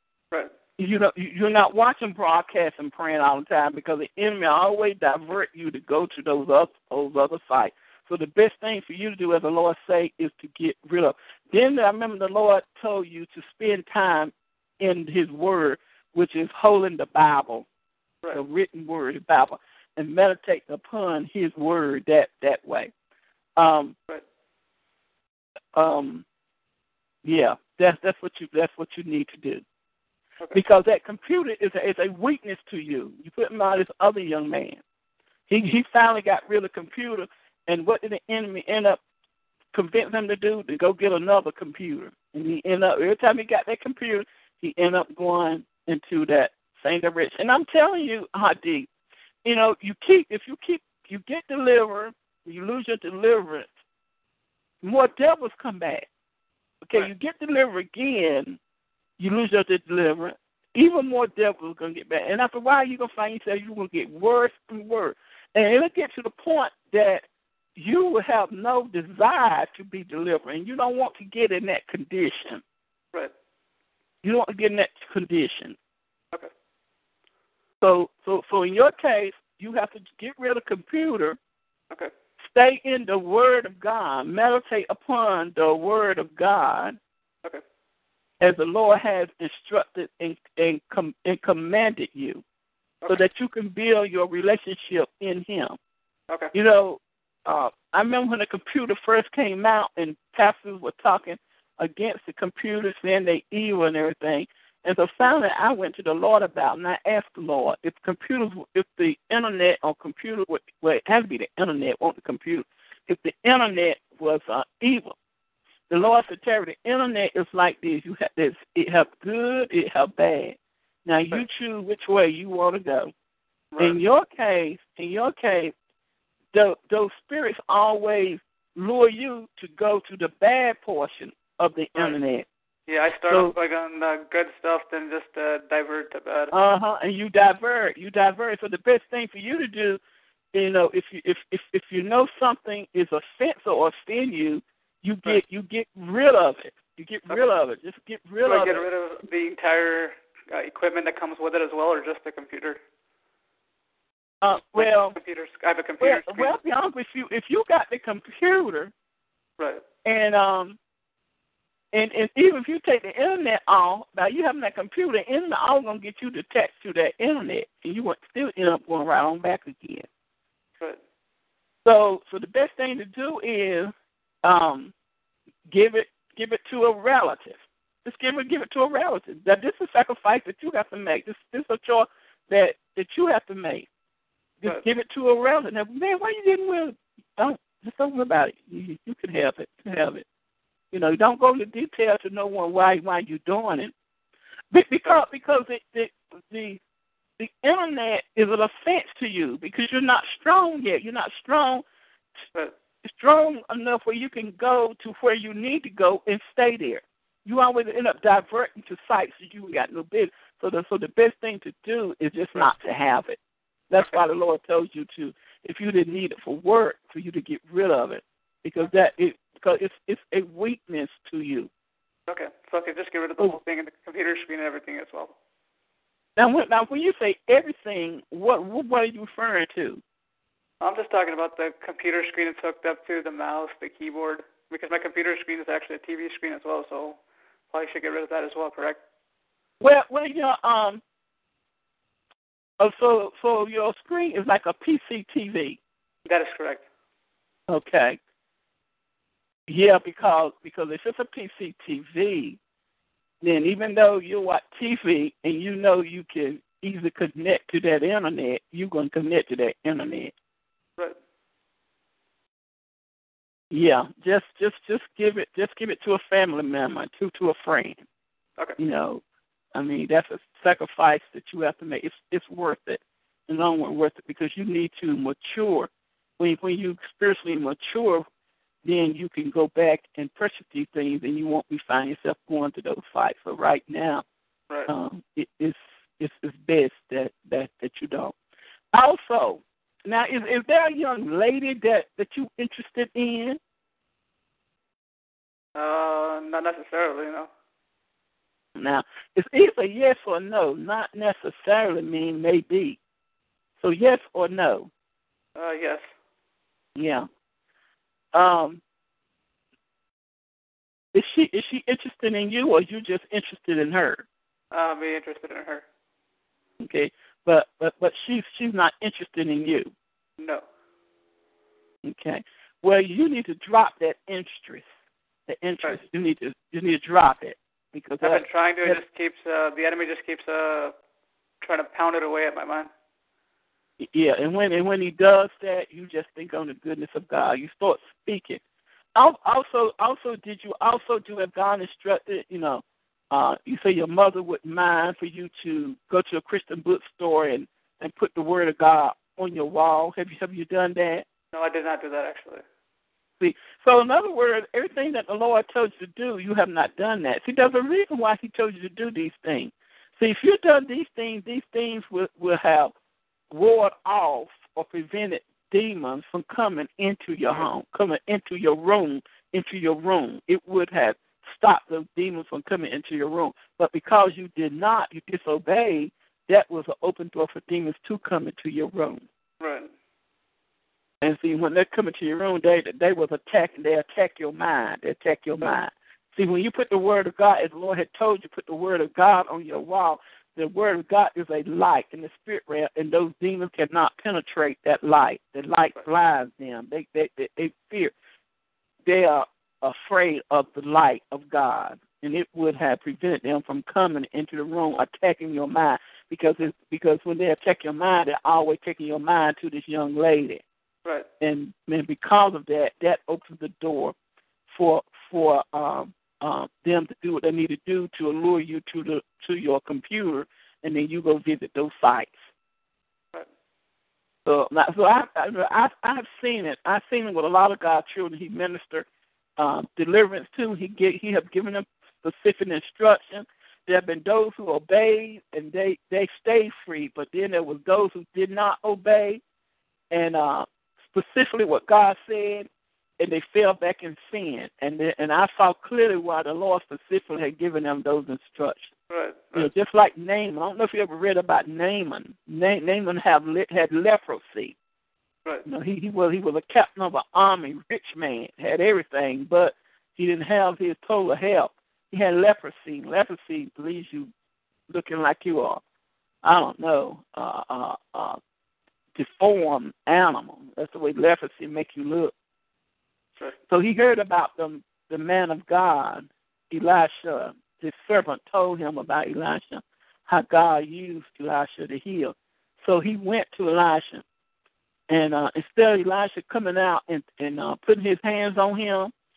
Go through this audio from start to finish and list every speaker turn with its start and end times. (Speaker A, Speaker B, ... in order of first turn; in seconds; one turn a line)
Speaker A: 0.8-17.7
Speaker A: 18.3-22.9
Speaker A: 23.6-23.9
Speaker A: 25.7-26.2
Speaker A: 27.2-29.6
Speaker A: 30.5-34.8
Speaker A: 35.5-39.0
Speaker A: 39.7-48.9
Speaker A: 49.4-53.7
Speaker A: 54.8-56.1
Speaker A: 56.8-58.6
Speaker A: 59.2-67.2
Speaker A: 67.8-72.6
Speaker A: 74.2-75.8
Speaker A: 77.8-81.4
Speaker A: 82.4-87.0
Speaker A: 88.4-92.4
Speaker A: 93.1-95.8
Speaker A: 96.5-115.2
Speaker A: 115.9-123.1
Speaker B: 123.7-124.0
Speaker A: 123.8-125.7
Speaker A: 126.5-132.5
Speaker B: 132.9-136.5
Speaker A: 133.3-133.5
Speaker A: 136.5-140.0
Speaker A: 140.5-148.9
Speaker B: 148.4-152.8
Speaker A: 154.4-155.2
Speaker B: 154.8-156.6
Speaker A: 156.0-158.9
Speaker B: 159.6-159.8
Speaker A: 160.1-160.8
Speaker A: 161.9-170.1
Speaker A: 171.8-173.9
Speaker A: 174.4-174.9
Speaker A: 175.7-183.9
Speaker A: 184.6-190.2
Speaker A: 190.9-193.9
Speaker A: 194.7-196.8
Speaker A: 197.4-201.8
Speaker A: 203.0-213.4
Speaker A: 213.9-221.7
Speaker B: 222.3-225.3
Speaker A: 226.4-230.0
Speaker B: 230.8-237.2
Speaker B: 237.7-239.0
Speaker A: 239.8-241.0
Speaker A: 242.8-245.8
Speaker B: 246.2-246.8
Speaker A: 247.7-248.2
Speaker A: 249.7-252.6
Speaker A: 253.4-260.3
Speaker A: 263.7-268.0
Speaker A: 268.8-269.2
Speaker A: 269.7-278.2
Speaker A: 278.9-284.2
Speaker A: 284.9-288.4
Speaker A: 288.9-293.6
Speaker B: 295.8-297.5
Speaker A: 298.8-303.0
Speaker A: 303.8-304.9
Speaker B: 305.6-306.1
Speaker A: 307.0-307.3
Speaker A: 308.3-308.8
Speaker A: 311.1-314.2
Speaker B: 314.7-315.8
Speaker A: 316.8-319.9
Speaker B: 320.4-320.6
Speaker A: 322.0-324.9
Speaker A: 325.5-329.0
Speaker B: 328.2-330.9
Speaker B: 331.6-332.9
Speaker A: 334.0-338.6
Speaker A: 339.1-351.2
Speaker B: 351.5-352.6
Speaker A: 353.4-362.9
Speaker A: 363.5-379.2
Speaker B: 379.6-379.9
Speaker A: 381.2-398.1
Speaker A: 399.0-410.6
Speaker A: 411.4-414.1
Speaker A: 414.7-422.3
Speaker A: 424.5-429.1
Speaker A: 429.6-439.4
Speaker A: 440.1-442.7
Speaker A: 443.2-448.9
Speaker B: 449.1-449.7
Speaker A: 449.5-454.8
Speaker A: 455.6-464.3
Speaker A: 464.9-465.8
Speaker A: 466.4-468.4
Speaker A: 469.1-472.3
Speaker A: 473.7-484.2
Speaker A: 485.1-489.1